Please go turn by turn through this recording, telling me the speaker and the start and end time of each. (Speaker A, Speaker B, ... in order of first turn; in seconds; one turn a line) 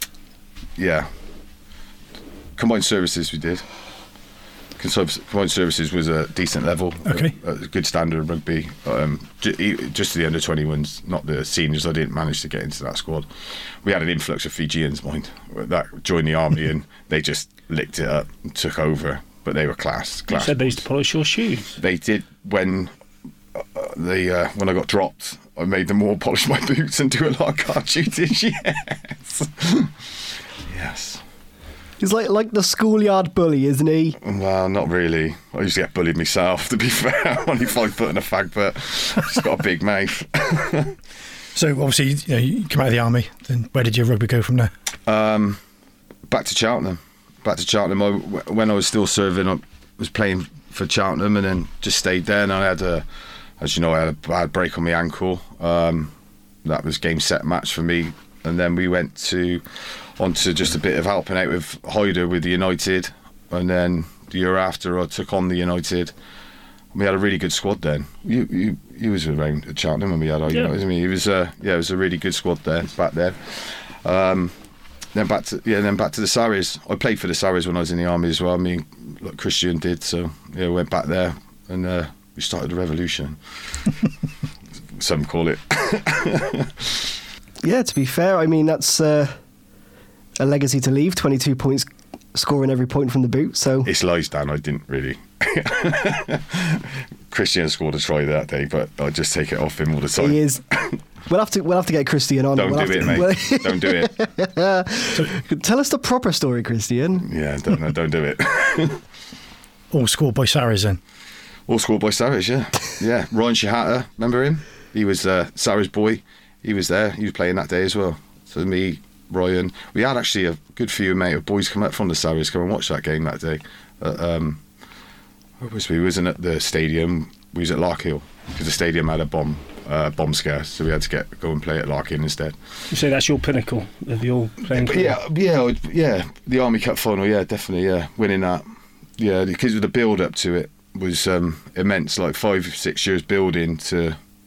Speaker A: 0.8-1.1
Speaker A: 2.5-3.6
Speaker A: 4.8-13.3
Speaker B: 7.1-7.3
Speaker A: 13.8-20.8
Speaker C: 20.3-21.8
Speaker A: 21.8-22.9
Speaker A: 23.6-29.9
Speaker A: 30.7-31.2
Speaker D: 32.0-34.2
Speaker A: 34.2-40.9
Speaker B: 41.5-44.7
Speaker A: 45.0-45.6
Speaker A: 46.3-53.0
Speaker A: 53.6-56.1
Speaker A: 56.6-59.6
Speaker A: 60.2-66.1
Speaker A: 66.9-74.5
Speaker C: 70.5-70.8
Speaker A: 75.1-83.4
Speaker A: 84.9-87.0
Speaker D: 87.6-89.3
Speaker D: 90.4-93.9
Speaker A: 93.8-101.0
Speaker D: 100.2-100.6
Speaker D: 101.2-107.3
Speaker A: 102.5-104.2
Speaker A: 107.2-109.0
Speaker B: 109.9-111.0
Speaker A: 111.7-124.6
Speaker A: 125.6-132.6
Speaker C: 132.9-135.2
Speaker A: 134.7-138.6
Speaker A: 139.2-144.2